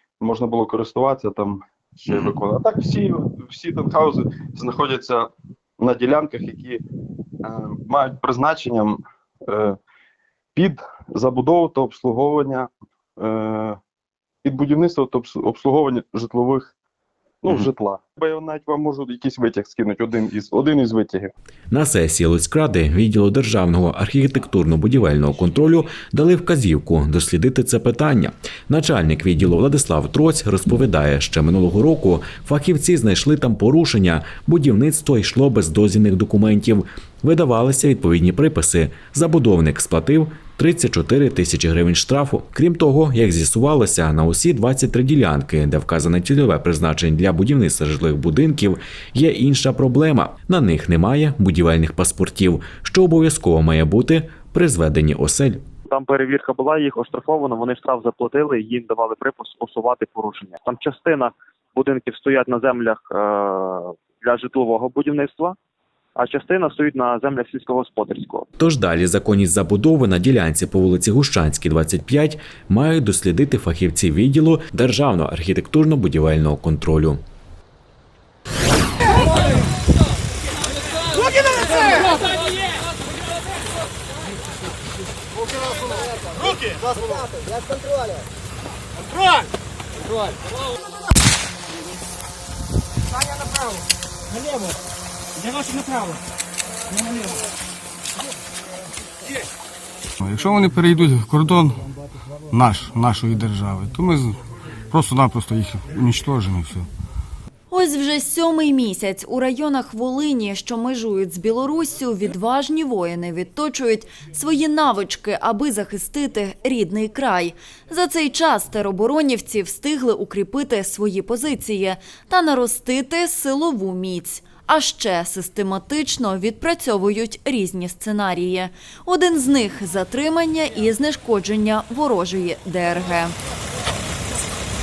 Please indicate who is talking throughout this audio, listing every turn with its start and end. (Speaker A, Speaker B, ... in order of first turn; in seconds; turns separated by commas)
Speaker A: 0.2-6.8, Speaker A: 7.4-9.8, Speaker A: 10.6-13.8, Speaker A: 14.4-16.7, Speaker A: 17.4-21.3, Speaker B: 21.7-55.7, Speaker C: 55.9-65.6, Speaker C: 66.2-68.5, Speaker B: 68.6-77.2, Speaker D: 81.6-82.1, Speaker D: 93.0-94.8, Speaker D: 95.3-96.2, Speaker D: 96.9-97.4, Speaker E: 100.2-101.8, Speaker E: 102.5-104.4, Speaker E: 104.9-106.9, Speaker F: 107.7-133.3